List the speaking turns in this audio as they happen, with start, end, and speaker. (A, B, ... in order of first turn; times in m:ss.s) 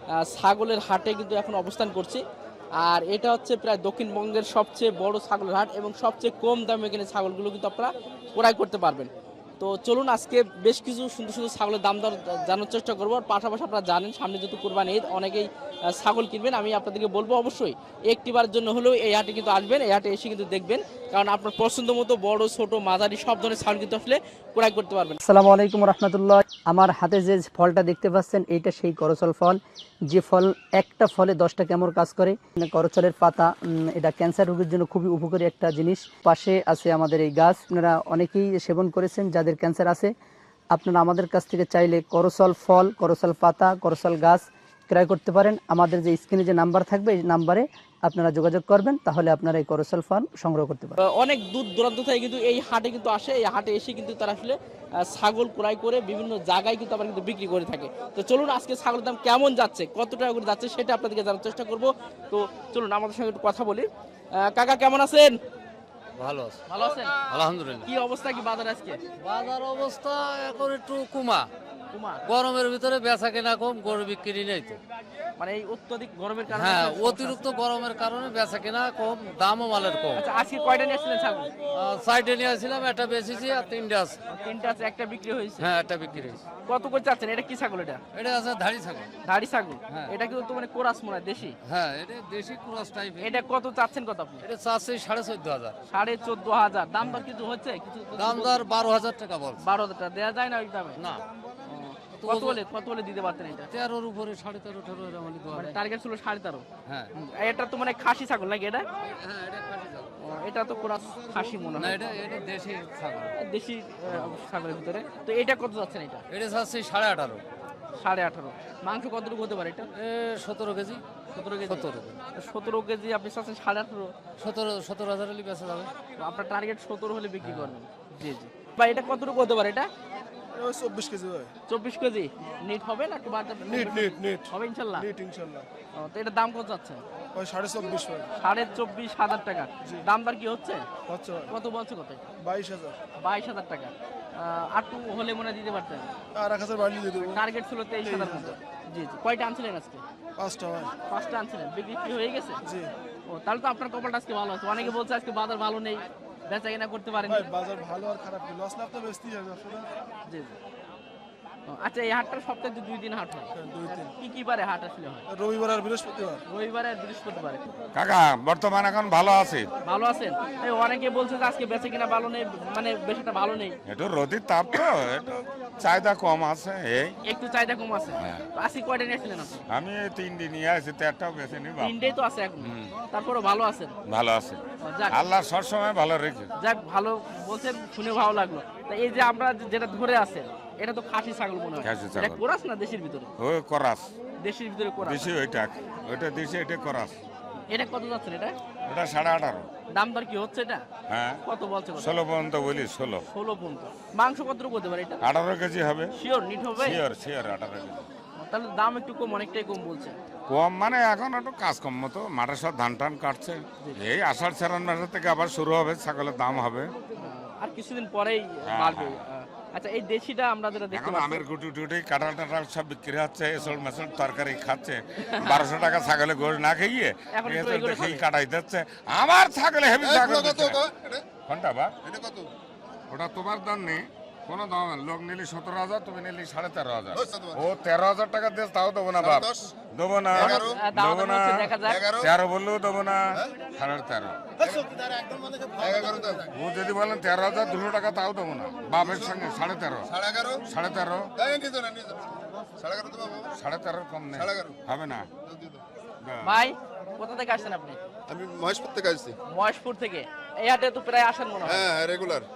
0:00.2-0:02.2 A
0:02.8-0:09.1 A
0:09.6-0:25.2 A
0:25.2-0:40.1 B
0:40.7-0:51.0 B
0:51.0-1:03.9 A
1:04.4-1:05.3 A
1:06.2-1:07.9 C
1:06.7-1:07.2 A
1:07.8-1:09.0 A
1:09.2-1:11.5 C
1:11.9-1:12.2 A
1:12.2-1:14.8 C
1:15.4-1:17.4 A
1:16.5-1:20.2 C
1:20.1-1:21.5 A
1:21.7-1:24.2 C
1:24.3-1:25.7 A
1:25.6-1:26.4 C
1:26.7-1:28.0 A
1:28.1-1:29.1 C
1:29.2-1:31.6 A
1:31.6-1:33.4 C
1:33.2-1:34.4 A
1:34.4-1:35.7 C
1:35.9-1:38.6 A
1:38.1-1:39.6 C
1:39.6-1:41.0 A
1:41.0-1:41.2 C
1:41.7-1:43.7 A
1:42.2-1:42.6 C
1:43.7-1:45.8 C
1:45.5-1:46.6 A
1:47.2-1:48.8 A
1:49.1-1:50.2 C
1:50.2-1:52.0 A
1:51.8-1:53.3 C
1:53.4-1:56.2 A
1:54.1-1:54.4 C
1:56.3-1:57.4 C
1:58.0-1:59.9 A
2:00.0-2:01.0 C
2:01.3-2:04.1 A
2:01.6-2:02.2 C
2:04.4-2:05.9 C
2:06.2-2:09.9 A
2:07.4-2:07.7 C
2:10.5-2:11.5 D
2:11.7-2:15.1 A
2:13.7-2:15.7 D
2:16.0-2:17.0 A
2:17.3-2:18.3 D
2:18.4-2:20.9 A
2:21.1-2:21.5 D
2:21.5-2:22.2 A
2:22.4-2:23.0 D
2:23.2-2:26.1 A
2:26.3-2:27.4 D
2:27.3-2:30.0 A
2:28.0-2:28.6 D
2:30.4-2:30.9 D
2:31.1-2:32.6 A
2:32.6-2:32.9 D
2:33.3-2:37.5 A
2:37.2-2:39.9 D
2:40.3-2:40.5 A
2:41.7-2:45.2 A
2:43.6-2:44.1 D
2:45.3-2:46.4 D
2:46.5-2:47.6 A
2:47.9-2:49.7 E
2:49.8-2:53.8 A
2:53.8-2:57.1 E
2:57.2-2:59.6 A
2:59.7-3:02.9 E
3:01.8-3:03.9 A
3:04.1-3:04.6 E
3:04.8-3:05.2 A
3:05.1-3:06.5 E
3:06.6-3:13.3 A
3:11.8-3:12.4 E
3:13.4-3:14.1 E
3:14.4-3:15.3 A
3:15.0-3:17.2 E
3:17.7-3:18.5 A
3:18.9-3:19.7 E
3:19.9-3:20.8 A
3:21.1-3:21.4 E
3:21.4-3:22.1 A
3:22.0-3:23.2 E
3:23.3-3:25.2 A
3:25.2-3:26.1 E
3:26.2-3:27.0 A
3:26.8-3:28.1 E
3:28.4-3:30.2 A
3:30.5-3:36.9 E
3:37.2-3:41.4 A
3:38.7-3:39.2 E
3:40.9-3:50.8 E
3:45.3-3:45.6 A
3:47.3-3:48.2 A
3:50.0-3:51.2 F
3:51.4-3:51.9 E
3:52.1-3:52.4 F
3:53.1-4:04.4 E
3:57.2-3:57.6 F
3:59.2-3:59.7 F
4:00.3-4:00.8 F
4:00.4-4:02.0 A
4:01.9-4:02.3 F
4:04.7-4:06.5 F
4:06.5-4:10.1 E
4:10.1-4:10.6 F
4:10.6-4:11.3 E
4:11.4-4:13.4 F
4:13.6-4:15.3 E
4:14.3-4:14.7 F
4:16.4-4:18.0 A
4:18.3-4:19.4 F
4:19.5-4:21.9 A
4:21.7-4:22.4 F